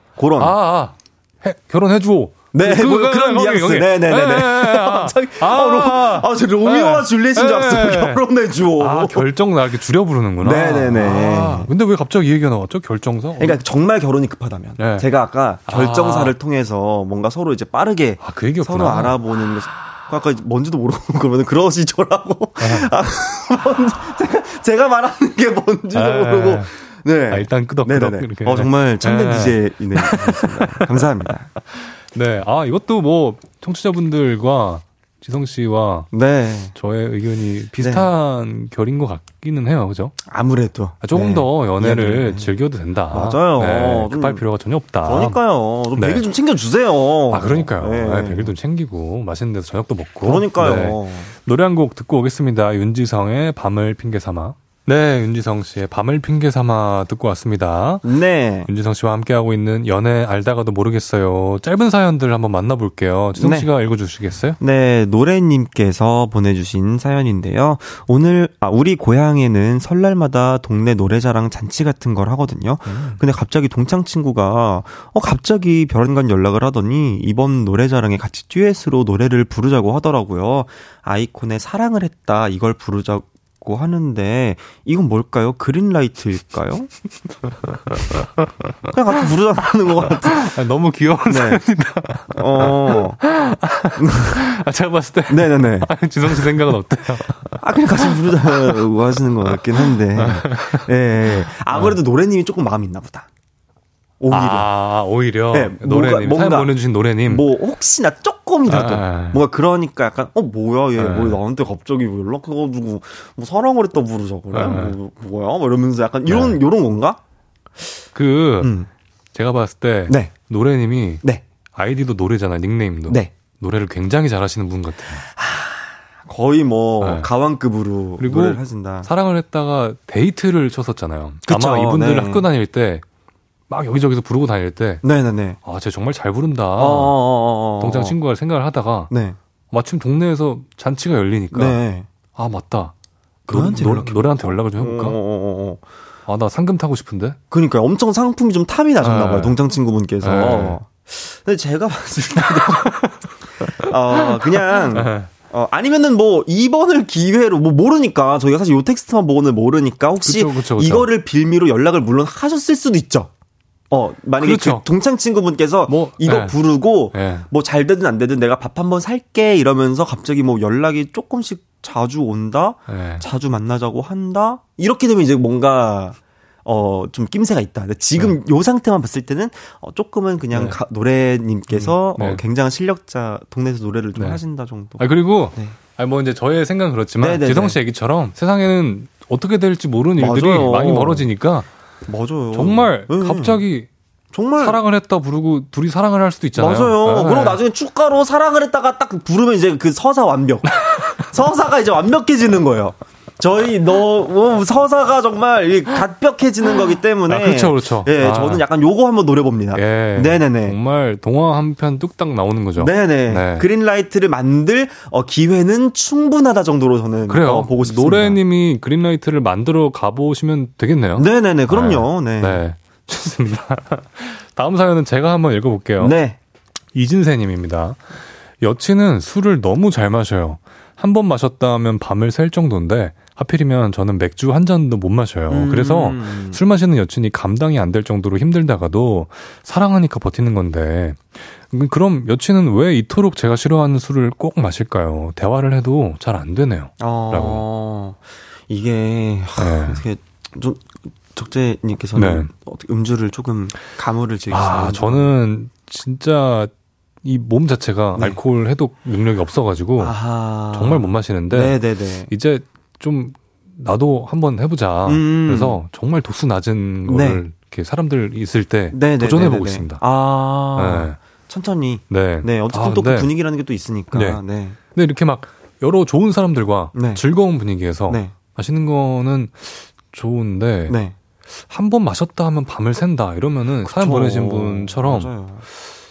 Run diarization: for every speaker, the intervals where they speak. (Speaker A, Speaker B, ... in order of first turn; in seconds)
Speaker A: 0.1-0.5, 2.5-9.3, 10.4-11.7, 13.4-31.5, 36.1-36.7, 37.8-38.1, 40.3-42.5, 43.1-44.4, 45.0-48.5, 50.2-51.3, 58.0-58.7, 63.4-63.7, 64.6-86.9, 88.9-90.5, 91.3-91.6, 92.3-93.2, 94.0-94.4, 95.3-96.6, 97.6-103.3, 104.2-104.7, 105.5-117.2, 118.6-118.9, 120.1-120.3, 125.3-129.1, 131.4-132.4, 135.0-135.6, 136.8-138.1, 139.1-139.4, 141.5-142.1, 143.5-145.8, 147.5-153.2, 153.8-163.3, 163.9-185.8, 187.2-187.8, 190.2-191.3, 192.1-193.6, 194.3-194.8, 196.6-210.8, 212.8-218.4, 221.2-222.6, 226.0-226.4, 235.5-236.6, 247.0-255.2, 260.0-262.3, 265.1-265.8, 267.1-267.4, 268.9-274.8, 276.9-277.2, 278.1-278.3, 280.9-281.1, 283.8-285.6
Speaker B: 0.4-8.2, 8.8-13.6, 14.8-15.1, 15.6-16.4, 18.2-19.6, 22.6-22.9, 25.9-26.7, 27.3-36.1, 36.7-40.2, 41.0-45.4, 45.9-46.2, 47.3-58.1, 58.6-64.6, 72.8-73.2, 87.9-88.2, 90.2-98.9, 99.5-102.0, 104.3-107.5, 108.7-109.4, 111.0-111.4, 114.5-115.0, 116.2-116.6, 118.1-118.7, 119.3-125.2, 127.0-127.3, 128.2-133.0, 133.7-135.0, 135.6-137.2, 137.8-139.1, 139.7-141.8, 142.3-142.9, 143.5-145.2, 146.3-147.4, 149.0-149.6, 150.2-150.8, 152.4-155.3, 160.2-161.1, 164.4-164.8, 165.9-166.6, 167.1-167.5, 172.9-173.2, 180.5-180.8, 181.7-182.4, 184.1-184.4, 185.0-191.7, 192.5-193.9, 194.6-197.6, 200.8-201.3, 207.3-208.6, 209.7-213.7, 217.3-226.1, 226.9-247.6, 249.6-250.0, 252.1-252.5, 254.5-256.7, 257.2-260.2, 260.7-270.0, 270.8-271.2, 272.1-273.3, 274.1-274.4, 274.9-280.9, 281.5-285.3